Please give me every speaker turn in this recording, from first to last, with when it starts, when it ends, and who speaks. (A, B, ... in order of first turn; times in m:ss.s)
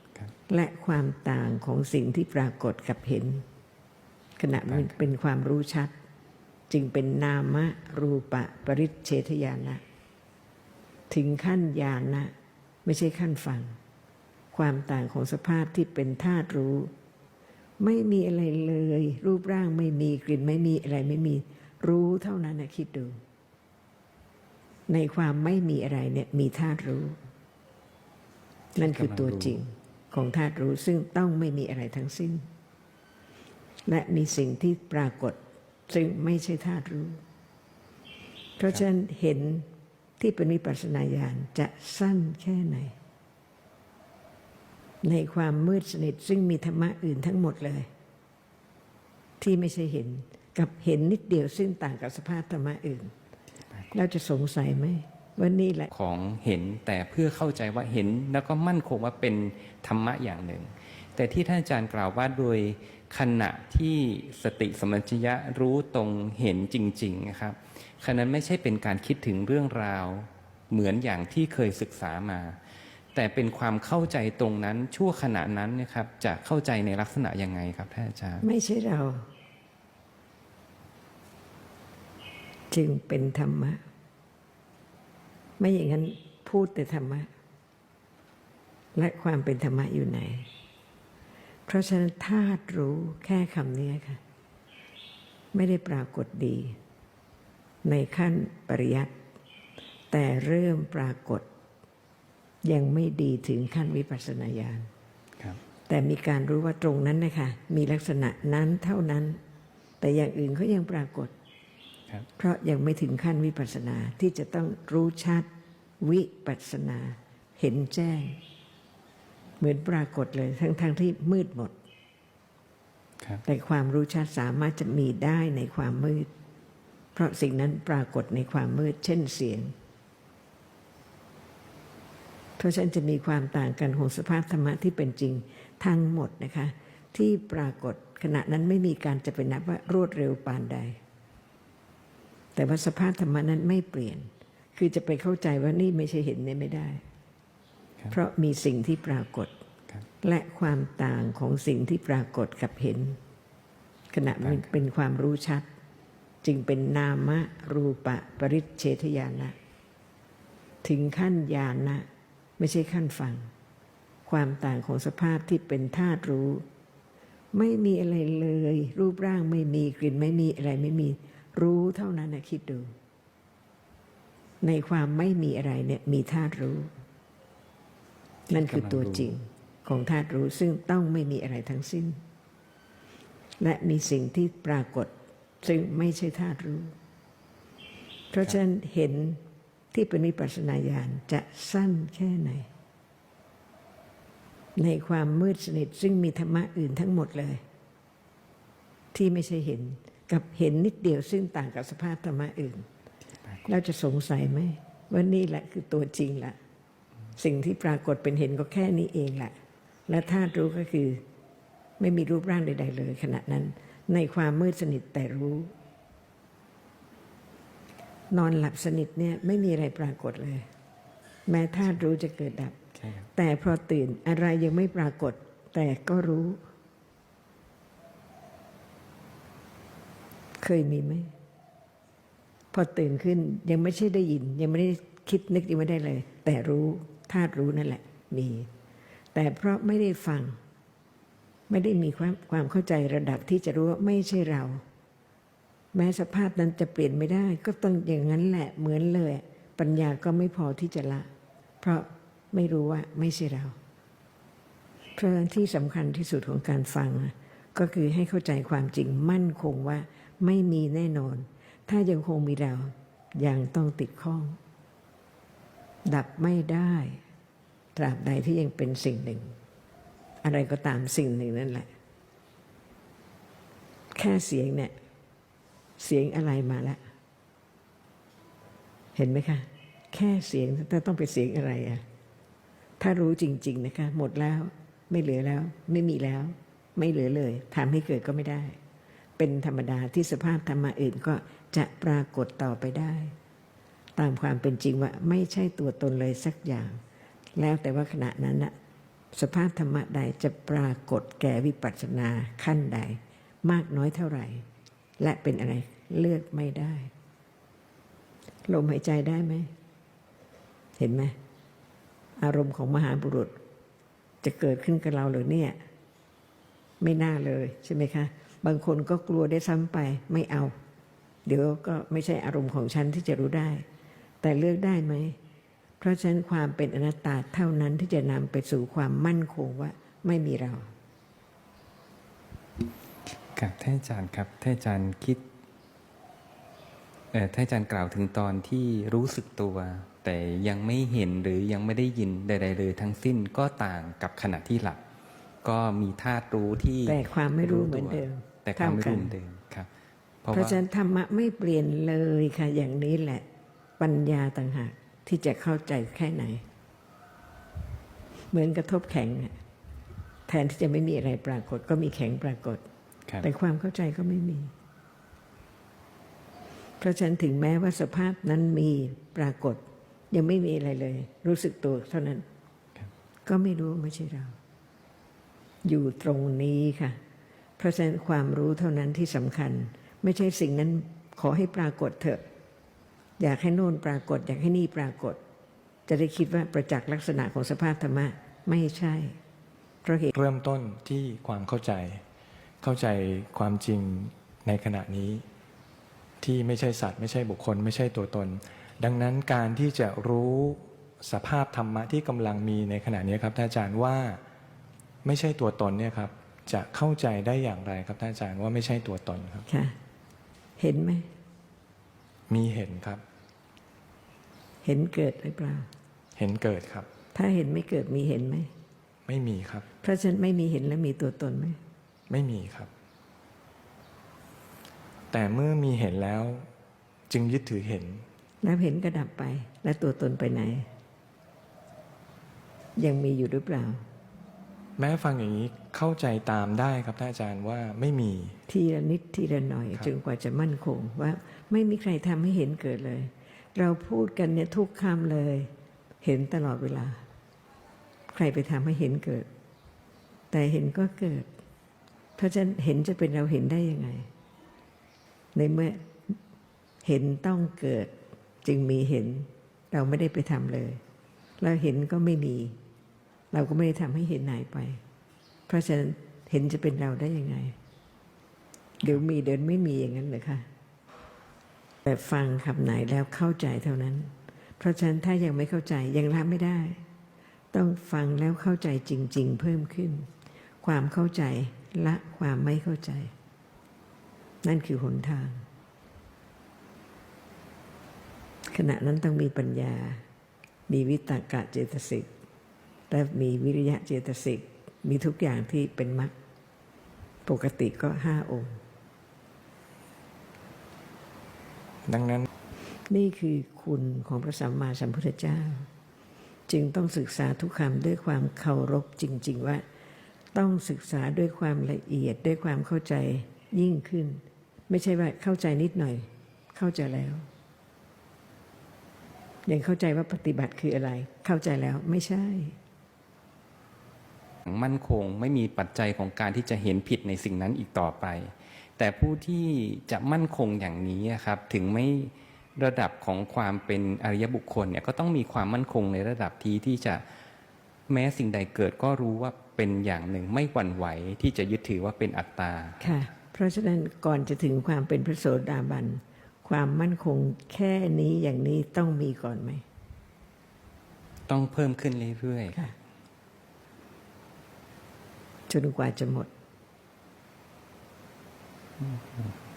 0:00.5-0:03.4 A
0:04.4-0:05.9 A
0:04.5-0:04.9 B
0:06.7-0:09.8 A
0:11.1-0:12.3 A
0:12.8-0:13.8 A
0:14.5-0:16.9 A
0:17.8-0:23.2 A
0:24.9-0:27.2 A
0:28.8-0:29.6 B
0:28.8-0:32.5 A
0:33.9-0:35.4 A
0:35.9-0:37.2 A
0:38.6-0:39.7 A
0:40.2-0:43.0 A
0:45.0-0:47.9 A
0:49.4-0:53.1 A
0:53.9-0:55.9 A
0:55.9-1:12.6 B
1:13.1-1:18.4 B
1:18.4-1:19.3 A
1:22.7-1:23.8 A
1:25.6-1:27.3 A
1:29.0-1:30.5 A
1:31.7-1:34.2 A
1:35.5-1:36.8 A
1:37.8-1:39.1 A
1:40.1-1:41.4 A
1:42.6-1:44.9 A
1:45.9-1:49.4 A
1:50.0-1:51.3 A
1:52.4-1:55.5 A
1:56.0-1:58.4 A
1:59.6-2:01.7 A
2:03.4-2:06.3 A
2:07.2-2:09.7 A
2:12.6-2:21.0 A
2:22.6-2:27.0 A
2:28.1-2:29.5 A
2:30.2-2:33.2 A
2:34.1-2:35.7 A
2:34.4-2:34.7 B
2:36.4-2:39.6 A
2:40.8-2:42.1 A
2:42.6-2:43.5 A
2:44.3-2:46.6 A
2:47.5-2:52.9 A
2:54.6-2:56.9 A
2:58.5-2:59.3 B
2:58.5-3:02.2 A
3:03.6-3:05.1 A
3:05.6-3:06.9 A
3:08.3-3:09.4 A
3:09.9-3:12.7 A
3:14.8-3:17.6 A
3:19.1-3:22.9 A
3:23.7-3:26.6 A
3:27.4-3:29.5 A
3:30.1-3:31.2 A
3:32.0-3:35.7 A
3:38.3-3:40.7 A
3:41.5-3:42.8 A
3:43.4-3:46.6 A
3:50.6-3:51.3 A
3:52.7-3:58.7 A
3:59.3-4:00.6 A
4:01.7-4:04.8 A
4:05.9-4:11.3 A
4:11.8-4:13.8 A
4:15.2-4:24.6 A
4:26.1-4:27.2 A
4:28.0-4:29.5 A
4:30.4-4:31.9 A
4:34.1-4:34.9 A
4:36.0-4:37.0 A
4:39.2-4:42.0 A
4:43.0-4:48.8 A
4:49.4-4:53.3 A
4:54.2-4:57.0 A
4:57.6-4:58.7 A
4:59.3-5:04.6 A
5:05.2-5:07.1 A
5:08.7-5:09.7 A
5:11.0-5:11.4 A
5:12.4-5:13.6 A
5:14.4-5:15.8 A
5:17.0-5:20.7 A
5:21.5-5:23.8 A
5:24.4-5:25.4 A
5:26.0-5:30.9 A
5:33.6-5:35.4 B
5:37.3-5:45.0 B
5:45.6-5:49.9 B
5:47.0-5:49.3 A
5:50.4-5:50.8 B
5:50.5-5:53.4 A
5:54.0-5:56.6 A
5:58.5-5:59.6 A
6:00.5-6:02.8 A
6:03.4-6:04.7 A
6:07.0-6:12.4 A
6:13.5-6:14.6 A
6:15.8-6:17.2 A
6:17.8-6:22.4 A
6:23.4-6:25.4 A
6:26.1-6:29.4 A
6:30.0-6:30.3 A
6:30.3-6:32.2 C
6:32.8-6:35.4 C
6:36.4-6:44.4 C
6:45.2-6:49.7 C
6:49.7-6:50.0 A
6:50.8-6:51.3 A
6:52.5-6:53.2 C
6:54.8-6:55.9 A
6:56.4-6:57.1 C
6:57.3-6:58.7 A
6:59.3-6:59.8 C
7:00.0-7:01.8 A
7:02.3-7:02.9 C
7:05.3-7:06.7 C
7:07.3-7:08.2 C
7:08.6-7:10.9 A
7:13.0-7:14.0 A
7:15.0-7:18.6 C
7:18.7-7:25.7 A
7:26.2-7:27.2 A
7:28.3-7:29.5 A
7:30.5-7:31.5 A
7:32.4-7:34.3 A
7:35.6-7:36.4 A
7:37.0-7:38.1 A
7:38.6-7:41.0 A
7:41.6-7:42.8 A
7:43.5-7:45.0 A
7:45.7-7:47.7 A
7:49.0-7:50.7 A
7:52.0-7:57.0 A
7:57.7-8:00.3 A
8:00.8-8:03.3 A
8:04.6-8:05.6 A
8:08.7-8:10.2 A
8:10.9-8:12.3 A
8:13.1-8:16.3 A
8:17.5-8:18.8 A
8:22.1-8:22.5 C
8:23.1-8:25.9 A
8:26.7-8:29.8 A
8:30.5-8:37.4 A
8:39.7-8:42.8 A
8:44.6-8:57.2 B
8:58.1-9:03.1 B
9:03.0-9:09.8 A
9:11.5-9:12.8 B
9:15.7-9:16.5 A
9:19.0-9:19.6 B